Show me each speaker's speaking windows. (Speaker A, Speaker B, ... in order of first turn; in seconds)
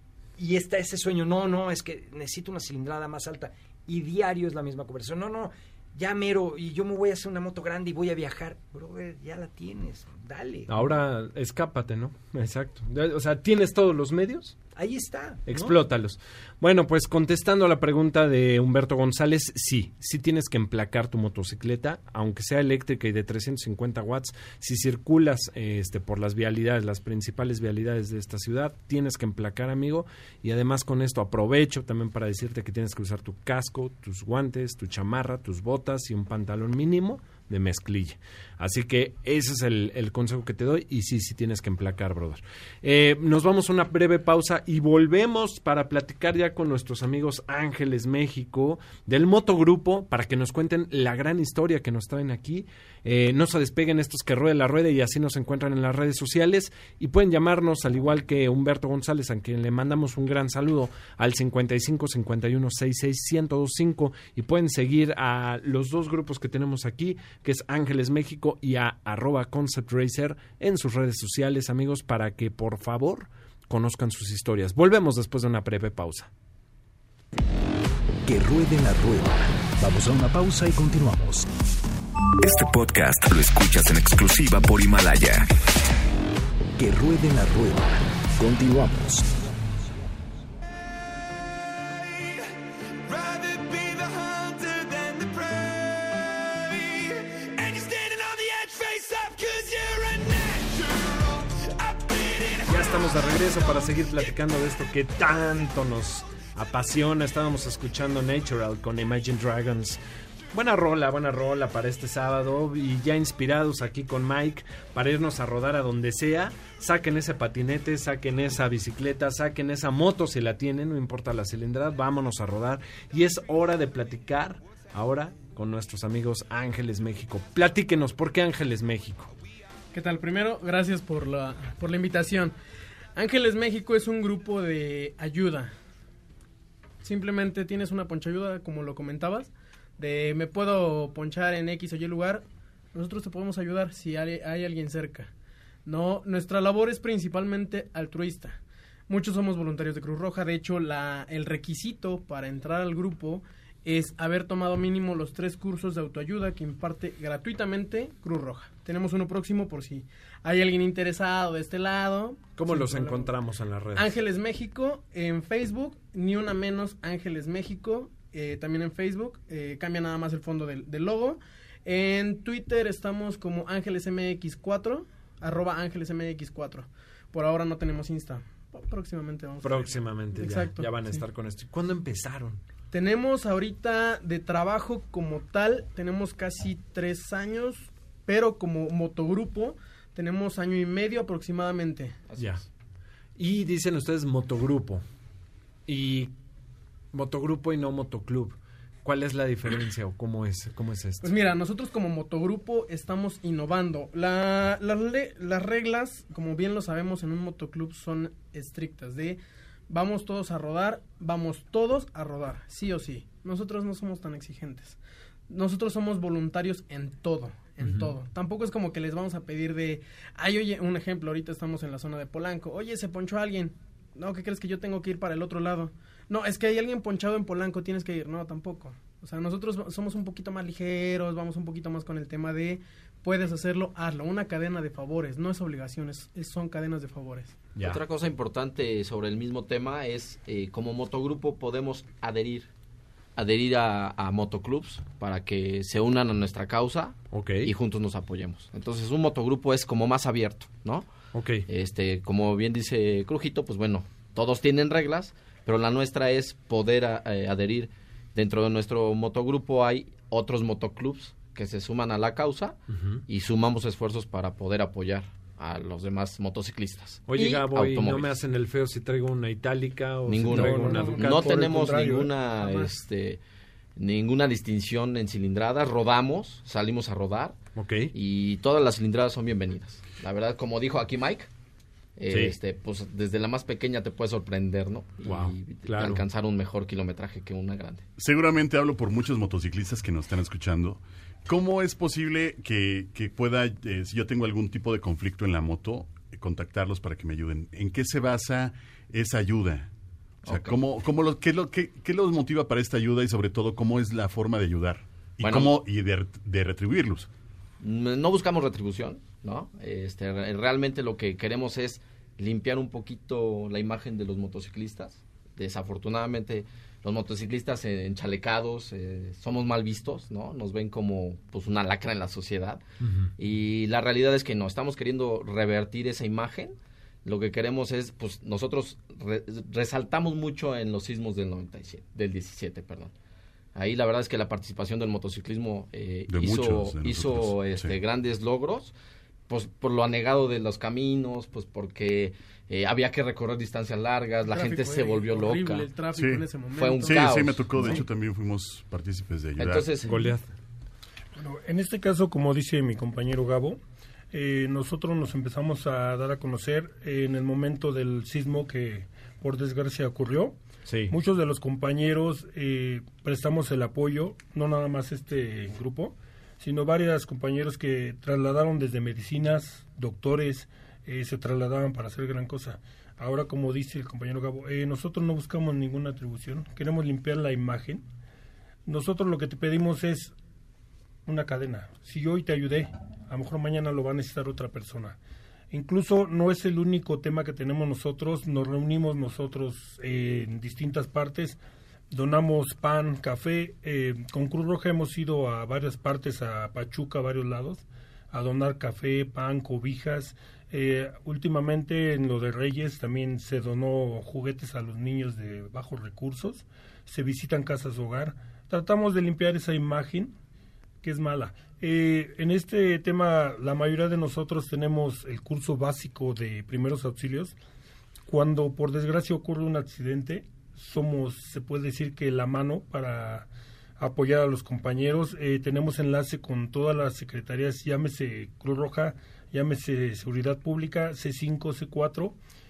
Speaker A: 0.4-10.7, 14.8-15.8
Speaker B: 10.7-14.6, 15.5-76.3, 102.7-110.0, 110.5-129.3, 162.6-164.1, 179.6-182.6, 192.4-192.6, 193.4-195.0, 195.9-196.3, 197.1-201.4, 217.8-218.1, 247.3-247.7, 251.3-251.6, 262.9-263.2, 267.2-271.4, 277.8-278.1, 282.3-282.6, 285.2-286.2, 323.0-323.3, 350.0-350.4, 360.9-361.1
Speaker C: 78.2-81.5, 86.8-89.3
Speaker D: 82.4-85.5
Speaker E: 129.9-132.5, 133.1-135.7, 137.0-145.3, 145.8-163.3, 163.9-181.2, 182.9-192.2, 201.2-237.6, 344.5-347.3
Speaker F: 192.3-192.6, 237.8-242.7, 243.3-251.1, 251.7-268.4, 270.3-273.4, 274.0-277.6, 278.1-281.5, 282.2-288.0, 300.4-300.8, 305.4-305.7, 307.8-322.8, 323.4-333.1, 333.7-338.9, 339.5-345.9, 346.7-348.0, 349.6-350.2
Speaker G: 270.5-272.9, 351.4-353.8, 354.3-360.6, 361.1-378.0, 378.9-380.3, 381.2-385.2, 385.7-391.6, 392.1-410.3, 411.0-417.5, 418.2-432.4
Speaker H: 288.2-299.9, 300.5-307.3, 336.3-338.0, 346.1-346.4, 347.0-349.9